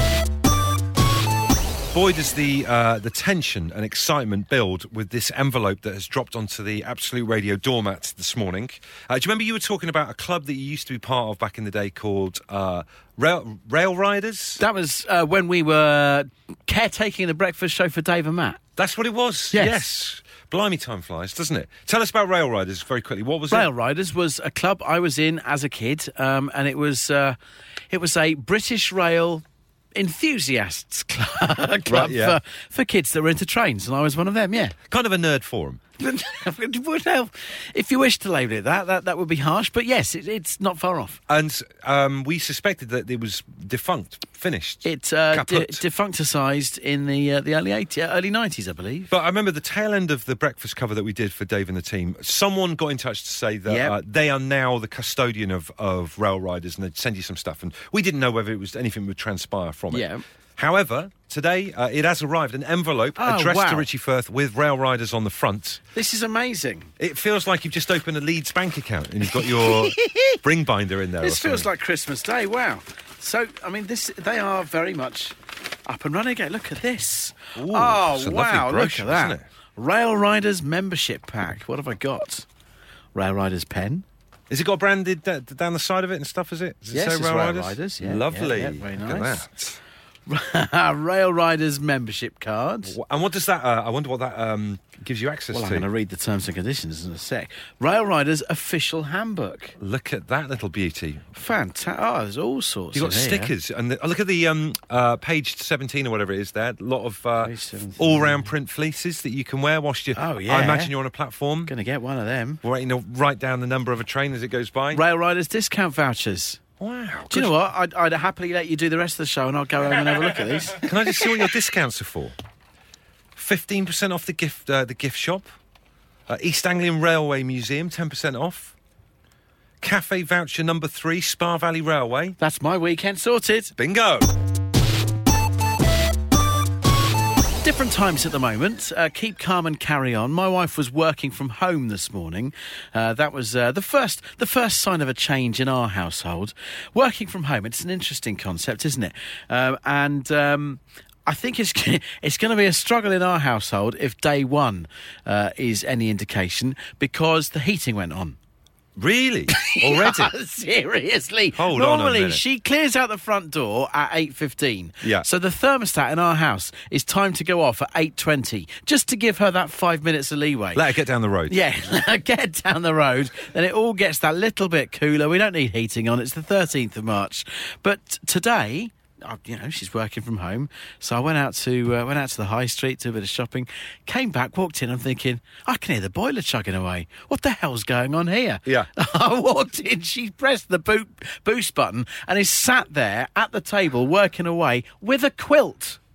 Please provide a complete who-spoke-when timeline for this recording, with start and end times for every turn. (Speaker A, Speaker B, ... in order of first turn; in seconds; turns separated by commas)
Speaker A: 1.9-14.6, Speaker B: 14.6-18.6, Speaker A: 18.8-23.7, Speaker B: 19.5-19.9, Speaker B: 23.5-27.4, Speaker B: 27.9-29.4, Speaker B: 29.9-34.8, Speaker A: 31.9-32.4, Speaker A: 34.9-35.8, Speaker B: 36.0-41.2, Speaker A: 41.3-45.8, Speaker B: 44.8-49.1, Speaker A: 49.1-65.8, Speaker B: 53.7-54.0, Speaker B: 59.9-60.2, Speaker B: 63.2-63.9, Speaker B: 65.9-66.9, Speaker A: 67.0-71.7, Speaker B: 69.3-70.4, Speaker B: 71.2-75.3, Speaker B: 75.9-82.5, Speaker A: 77.6-79.5, Speaker B: 83.1-84.0, Speaker A: 84.5-89.8, Speaker B: 86.9-89.4, Speaker B: 90.3-93.0, Speaker A: 92.9-95.9, Speaker B: 95.5-99.8, Speaker A: 99.8-101.3, Speaker B: 101.4-103.5, Speaker A: 102.9-111.7, Speaker B: 107.4-108.5, Speaker B: 110.2-111.0, Speaker B: 111.7-112.6, Speaker A: 112.6-115.0, Speaker B: 114.9-116.6, Speaker A: 116.8-117.5, Speaker B: 117.3-120.9, Speaker A: 120.8-122.3, Speaker A: 123.4-125.5, Speaker A: 126.3-128.7, Speaker A: 129.8-132.4, Speaker B: 132.4-133.7, Speaker A: 133.8-134.3, Speaker B: 137.6-158.4, Speaker A: 159.0-160.3, Speaker B: 159.5-170.9, Speaker A: 161.6-162.4, Speaker A: 170.7-171.6, Speaker B: 171.5-196.0